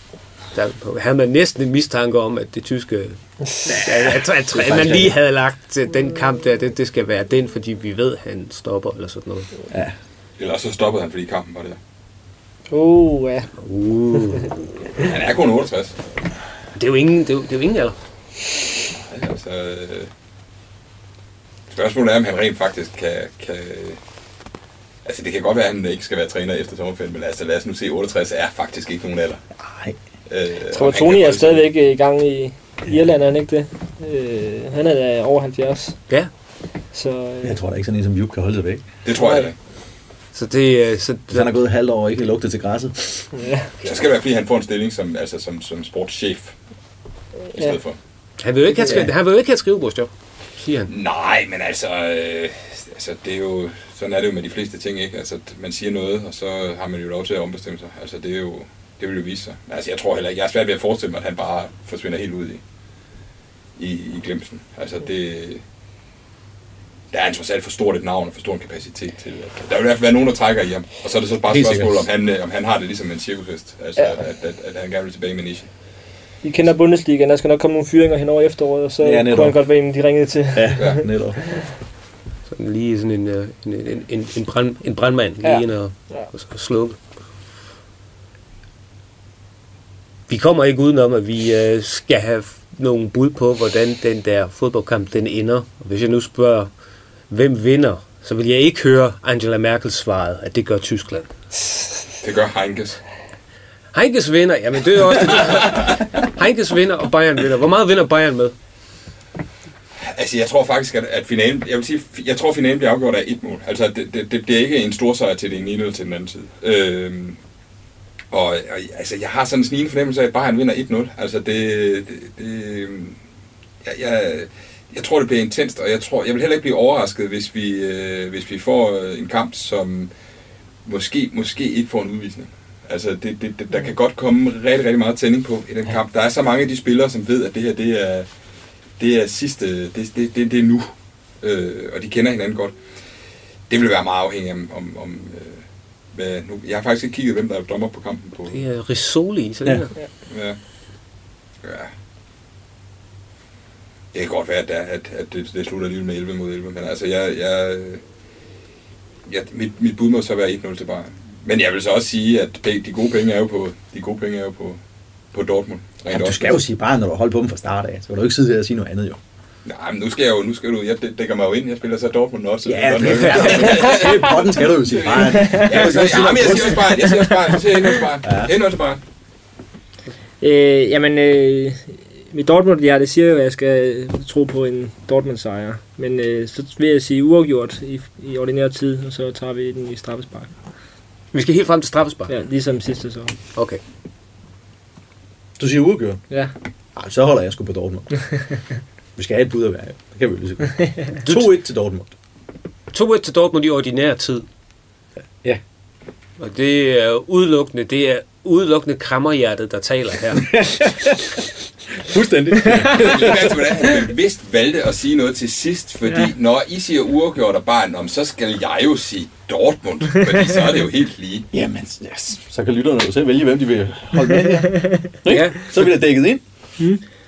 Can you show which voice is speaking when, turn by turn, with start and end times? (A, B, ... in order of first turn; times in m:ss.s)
0:00.5-0:09.5 A
0:03.7-0:05.2 B
0:09.7-0:09.9 B
0:10.4-0:11.8 C
0:12.7-0:13.5 D
0:13.6-0:14.5 A
0:15.0-0:16.0 C
0:16.8-0:18.0 A
0:18.9-0:20.1 C
0:21.7-0:24.0 C
0:25.0-0:29.4 C
0:29.6-0:30.0 B
0:30.3-0:31.7 C
0:30.7-0:36.0 D
0:36.9-0:37.6 D
0:37.4-0:38.9 B
0:39.0-0:39.5 C
0:39.2-0:39.5 D
0:40.3-0:41.6 A
0:41.3-0:43.3 B
0:43.3-0:43.7 D
0:43.8-0:46.5 C
0:47.5-0:48.0 C
0:48.4-0:50.9 A
0:48.8-0:49.1 B
0:50.9-1:02.6 C
1:03.8-1:05.6 C
1:07.1-1:15.7 C
1:11.4-1:12.1 B
1:16.4-1:21.1 D
1:19.0-1:19.6 B
1:20.5-1:21.5 B
1:22.5-1:27.0 A
1:25.4-1:26.3 D
1:30.3-1:36.7 A
1:37.3-1:41.3 A
1:42.2-1:43.0 C
1:43.9-1:48.5 A
1:45.2-1:46.1 C
1:50.1-1:57.4 C
1:58.3-2:03.2 C
2:03.8-2:10.1 C
2:10.8-2:18.3 C
2:19.0-2:20.9 C
2:21.4-2:22.8 C
2:23.7-2:25.6 C
2:26.1-2:28.6 C
2:28.5-2:29.9 A
2:30.3-2:30.6 C
2:31.6-2:31.9 C
2:34.1-2:38.0 C
2:39.2-2:44.8 C
2:45.3-2:46.6 C
2:46.1-2:49.2 B
2:49.6-2:59.0 C
2:52.6-2:57.3 B
2:53.1-2:53.8 A
2:58.2-2:58.5 B
3:00.4-3:10.5 D
3:11.3-3:12.3 A
3:12.3-3:13.3 D
3:15.6-3:16.2 B
3:17.0-3:18.1 B
3:19.2-3:22.1 B
3:21.2-3:21.5 A
3:22.9-3:24.4 A
3:26.4-3:30.6 A
3:30.4-3:31.4 B
3:31.9-3:34.0 B
3:32.8-3:41.5 C
3:41.5-3:46.4 B
3:45.3-3:45.9 A